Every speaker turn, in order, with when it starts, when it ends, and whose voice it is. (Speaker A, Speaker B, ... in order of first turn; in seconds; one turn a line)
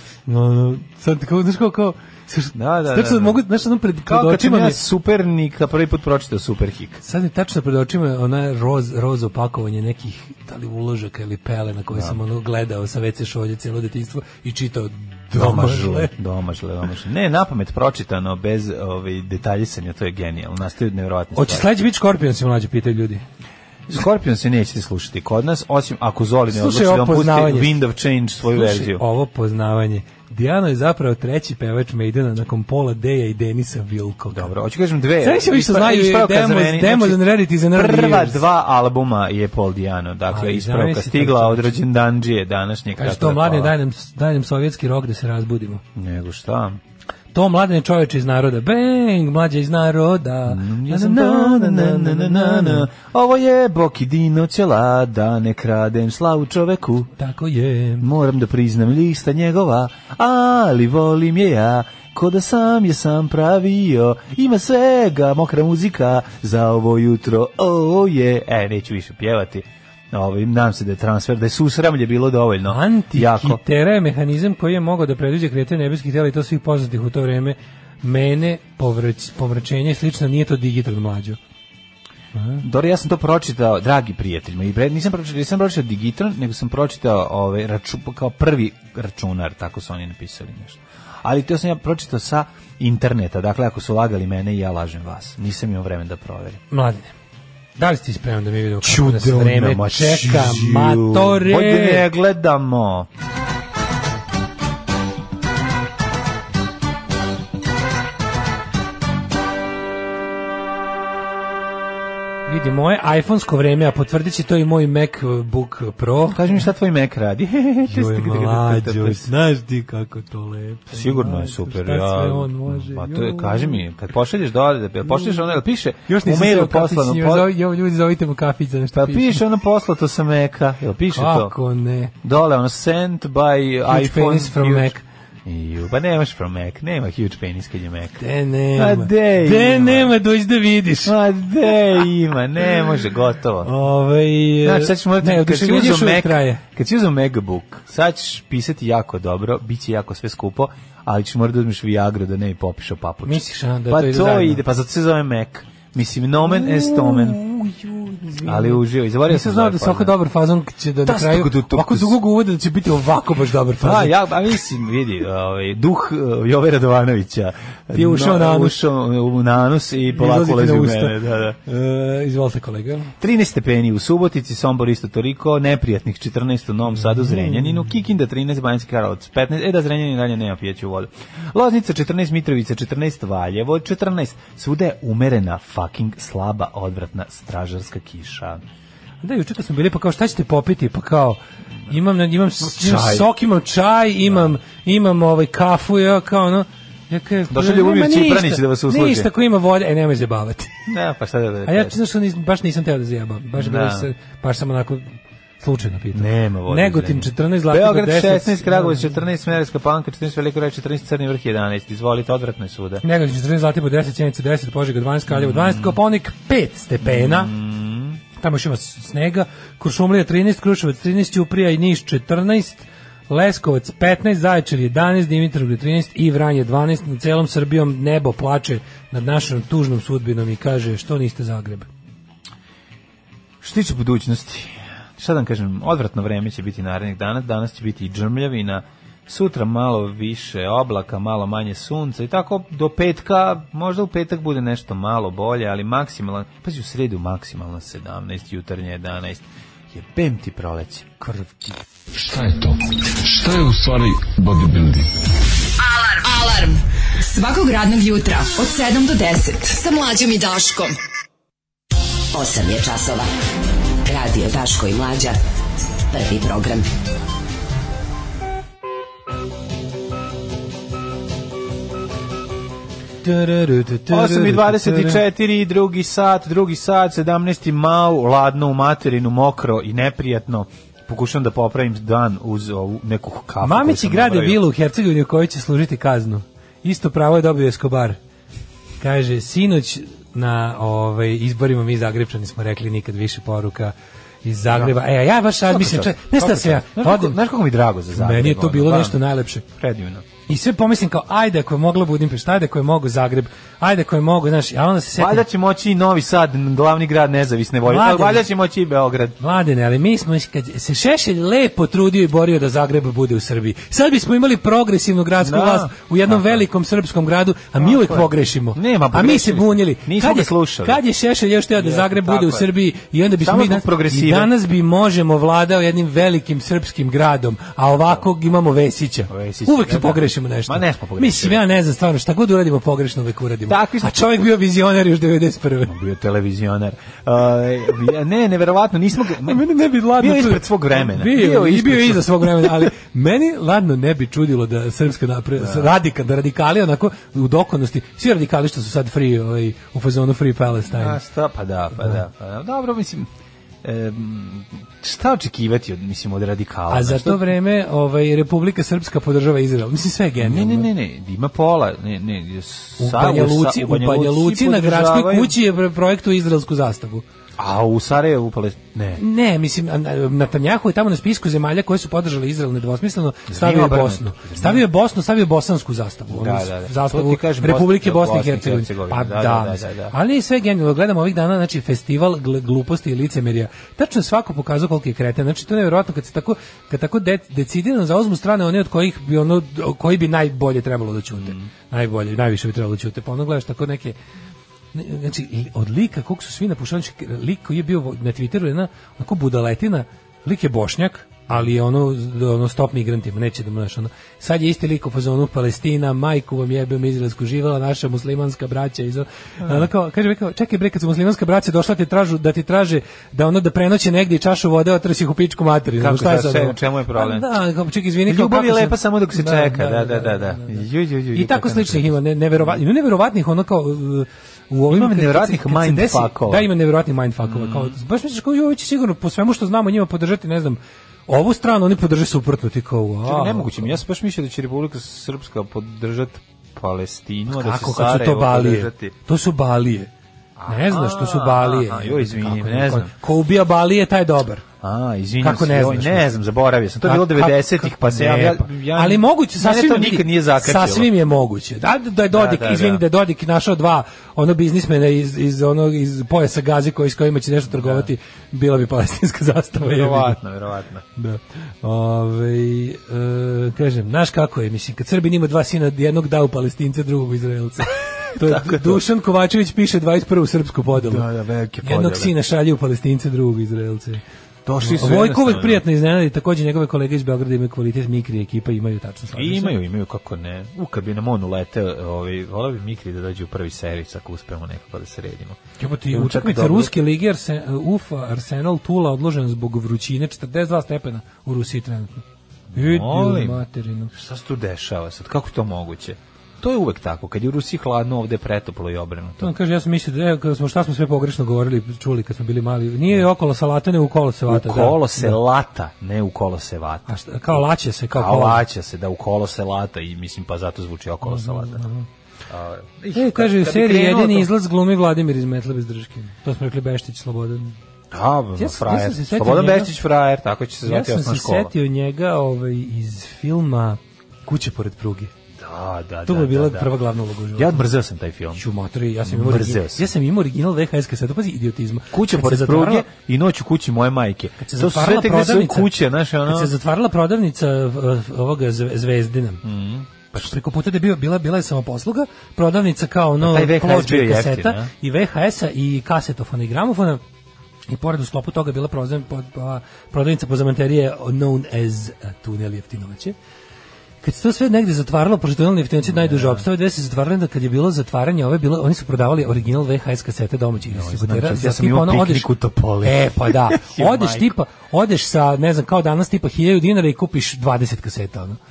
Speaker A: 0.3-4.8
Speaker B: 2.5-3.4
Speaker B: 4.1-7.0
Speaker A: 7.0-16.1
Speaker B: 11.9-12.2
Speaker B: 15.3-21.7
Speaker A: 21.4-23.2
Speaker B: 23.9-29.0
Speaker A: 26.5-27.8
Speaker A: 28.5-34.5
Speaker B: 34.3-43.7
Speaker A: 35.2-38.4
Speaker A: 40.3-41.7
Speaker A: 43.0-45.8
Speaker B: 46.0-46.8
Speaker A: 47.3-52.9
Speaker B: 50.5-57.1
Speaker A: 57.2-58.1
Speaker B: 58.0-73.6
Speaker A: 72.7-81.4
Speaker A: 82.3-82.6
Speaker B: 82.6-96.6
Speaker A: 96.7-97.1
Speaker A: 97.8-102.1
Speaker B: 98.8-103.1
Speaker A: 112.5-116.7
Speaker B: 116.3-119.3
Speaker A: 117.9-123.8
Speaker B: 120.9-127.5
Speaker A: 125.0-129.4
Speaker B: 128.9-131.5
Speaker A: 131.1-132.1
Speaker B: 132.2-138.2
Speaker A: 133.9-135.0
Speaker A: 138.2-141.1
Speaker B: 138.8-140.1
Speaker B: 141.0-143.7
Speaker A: 143.6-146.6
Speaker B: 144.6-157.4
Speaker A: 153.2-154.6
Speaker A: 156.4-164.2
Speaker B: 158.4-160.2
Speaker B: 161.1-162.2
Speaker B: 163.8-171.6
Speaker A: 167.9-168.8
Speaker A: 170.1-173.1
Speaker B: 173.2-188.6
Speaker A: 176.9-177.9
Speaker A: 189.2-200.7
Speaker B: 192.6-193.3
Speaker B: 197.5-199.3
Speaker B: 200.9-202.0
Speaker A: 201.7-209.2
Speaker B: 203.6-204.1
Speaker B: 206.1-213.0
Speaker A: 213.0-217.5
Speaker B: 215.3-216.0
Speaker B: 217.0-218.2
Speaker A: 218.4-231.9
Speaker B: 233.6-251.8
Speaker C: 252.1-255.1
Speaker D: 255.8-261.0
Speaker E: 262.3-263.3
Speaker E: 264.1-265.4
Speaker E: 266.1-266.9
Speaker A: 273.2-275.2
Speaker B: 274.1-284.6
Speaker A: 283.6-288.2
Speaker A: 289.0-297.4
Speaker B: 294.7-295.0
Speaker B: 295.7-299.2
Speaker A: 298.1-299.6
Speaker B: 299.8-300.3
Speaker A: 300.5-305.4
Speaker B: 305.2-309.4
Speaker A: 307.9-308.5
Speaker A: 309.4-335.9
Speaker B: 315.4-316.6
Speaker B: 317.8-321.0
Speaker B: 321.8-322.7
Speaker B: 323.4-324.5
Speaker B: 329.3-331.6
Speaker B: 333.7-334.3
Speaker B: 335.9-342.9
Speaker A: 339.5-351.2
Speaker B: 345.6-345.9
Speaker B: 350.9-353.3
Speaker B: 353.8-357.4
Speaker A: 356.9-360.9
Speaker B: 360.4-365.6
Speaker A: 363.0-367.2
Speaker B: 367.6-369.2
Speaker A: 369.2-394.2
Speaker B: 373.5-374.9
Speaker B: 376.3-380.1
Speaker B: 391.4-391.7
Speaker A: 394.9-420.8
Speaker B: 415.9-417.5
Speaker B: 418.3-422.8
Speaker A: 421.3-434.0
Speaker B: 424.9-426.7
Speaker B: 427.4-427.9
Speaker B: 433.2-439.1
Speaker A: 437.5-440.1
Speaker B: 440.6-443.1
Speaker A: 440.7-444.6
Speaker B: 444.8-451.1
Speaker A: 445.4-446.4
Speaker A: 447.0-460.4
Speaker B: 452.3-453.0
Speaker B: 457.7-458.1
Speaker B: 459.8-461.0
Speaker A: 461.2-471.3
Speaker B: 468.4-469.0
Speaker B: 470.9-472.3
Speaker A: 471.8-474.2
Speaker B: 474.7-475.8
Speaker A: 474.8-479.8
Speaker B: 479.3-485.6
Speaker A: 485.8-492.2
Speaker B: 486.1-486.9
Speaker B: 492.7-493.6
Speaker A: 492.8-494.1
Speaker B: 494.1-499.5
Speaker A: 499.4-505.4
Speaker B: 504.5-511.8
Speaker A: 507.1-508.6
Speaker A: 511.2-512.1
Speaker B: 512.5-514.5
Speaker A: 513.1-517.8
Speaker B: 518.1-521.7
Speaker A: 518.6-519.9
Speaker A: 520.8-525.3
Speaker B: 525.6-526.9
Speaker A: 526.3-527.9
Speaker B: 527.5-528.6
Speaker A: 528.6-533.1
Speaker B: 529.2-530.1
Speaker B: 532.1-536.7
Speaker A: 534.6-535.9
Speaker A: 536.5-539.6
Speaker B: 539.6-540.5
Speaker A: 540.3-547.2
Speaker B: 543.4-544.9
Speaker A: 547.9-553.4
Speaker A: 554.2-562.5
Speaker B: 556.0-556.6
Speaker B: 560.9-564.5
Speaker A: 563.0-568.6